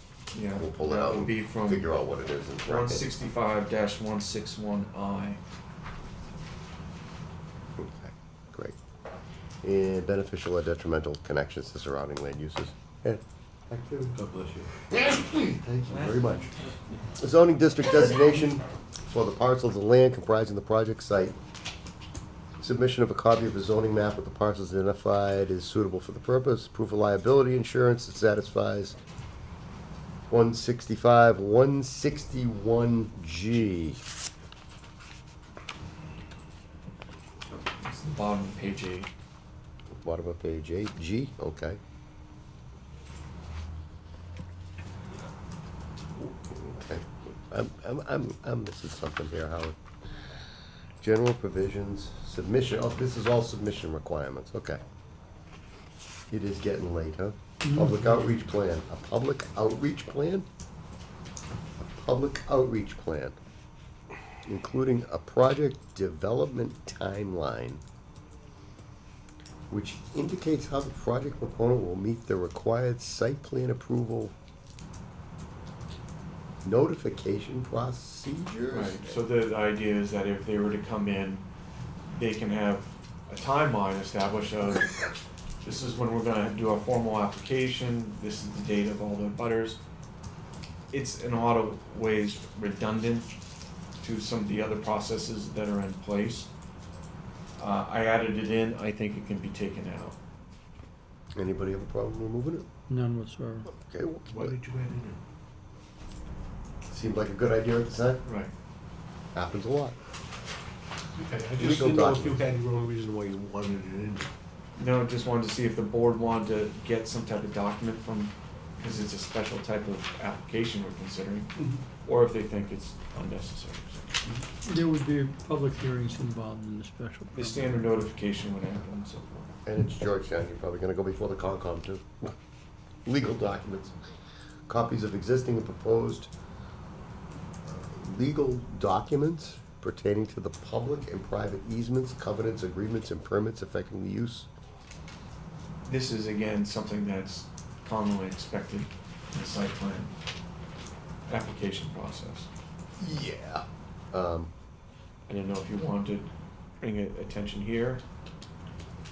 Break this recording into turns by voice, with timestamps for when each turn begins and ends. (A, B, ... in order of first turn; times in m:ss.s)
0:00.3-0:01.9 A
0:00.5-0:03.1 B
0:02.6-0:05.4 A
0:07.8-0:08.8 B
0:09.6-0:14.2 B
0:14.1-0:14.7 C
0:14.9-0:16.5 B
0:15.8-0:17.0 A
0:17.2-0:21.4 B
0:22.6-0:29.0 B
0:30.3-0:34.0 B
0:37.8-0:39.1 A
0:39.9-0:41.8 B
0:46.3-0:49.8 B
0:51.0-0:54.8 B
0:56.3-1:00.5 B
0:57.6-0:58.1 D
1:01.8-1:03.4 B
1:04.4-1:07.8 B
1:09.7-1:14.3 B
1:16.6-1:19.2 B
1:18.7-1:21.4 A
1:22.1-1:25.0 A
1:25.6-1:29.8 A
1:30.9-1:33.3 A
1:34.0-1:36.5 A
1:37.6-1:40.2 A
1:41.4-1:42.7 B
1:42.9-1:43.7 D
1:43.6-1:44.5 B
1:44.3-1:45.2 C
1:46.9-1:48.2 B
1:48.2-1:48.5 A
1:49.3-1:50.0 B
1:51.2-1:54.3 C
1:51.6-1:52.4 B
1:54.8-2:01.5 A
2:01.6-2:01.8 C
2:02.0-2:04.2 A
2:04.6-2:07.8 D
2:07.3-2:09.5 A
2:09.6-2:12.1 B
2:13.0-2:13.9 B
2:14.7-2:16.3 B
2:17.7-2:24.5 B
2:25.8-2:30.1 A
2:31.3-2:32.5 A
2:33.0-2:34.5 B
2:35.3-2:38.0 A